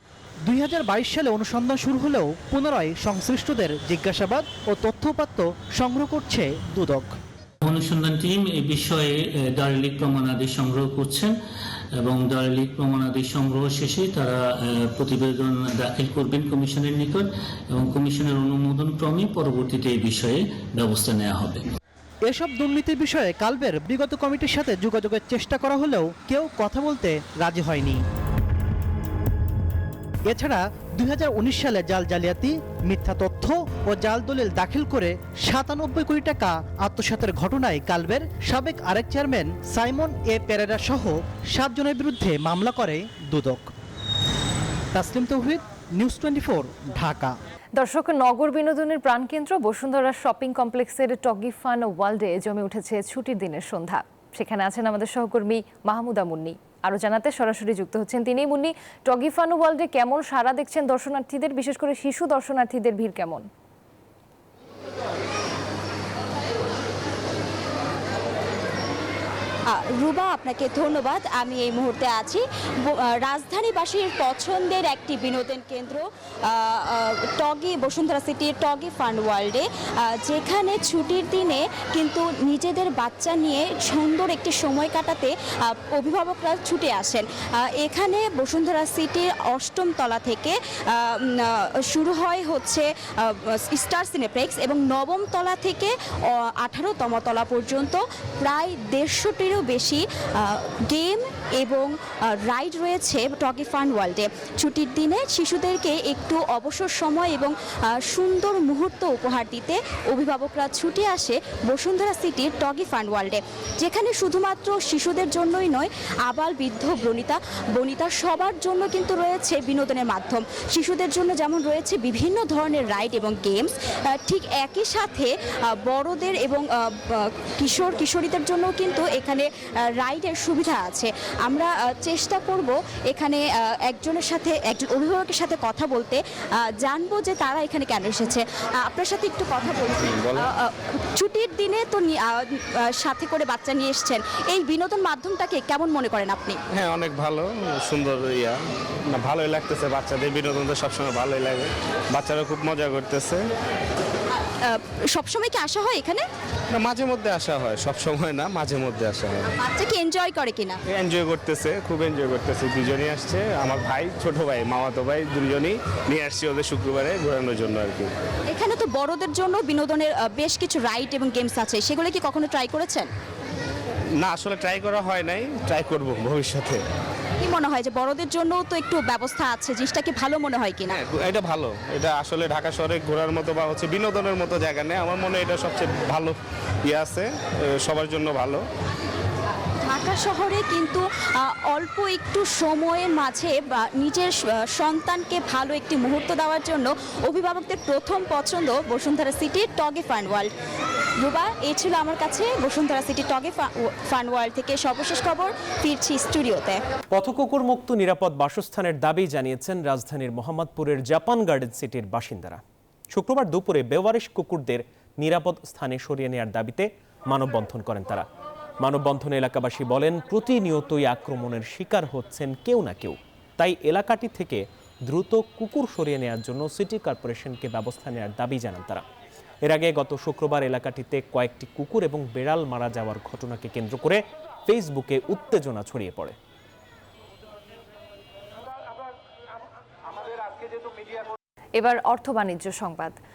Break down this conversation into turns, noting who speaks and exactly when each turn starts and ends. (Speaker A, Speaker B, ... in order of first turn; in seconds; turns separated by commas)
Speaker A: 0.5-7.1, Speaker B: 7.6-11.3, Speaker B: 11.9-21.6, Speaker A: 22.3-28.0, Speaker A: 30.3-43.7, Speaker A: 44.9-47.4, Speaker C: 47.8-63.4, Speaker D: 69.7-146.6, Speaker E: 140.1-140.5, Speaker E: 146.7-153.4, Speaker D: 154.6-156.3, Speaker E: 156.7-159.5, Speaker D: 159.6-160.8, Speaker E: 160.9-168.1, Speaker D: 168.5-173.1, Speaker E: 174.2-176.8, Speaker D: 177.4-181.0, Speaker E: 180.9-188.6, Speaker D: 189.8-200.5, Speaker D: 201.2-206.8, Speaker F: 207.1-218.2, Speaker F: 218.8-229.0, Speaker F: 229.6-236.3, Speaker C: 241.8-243.2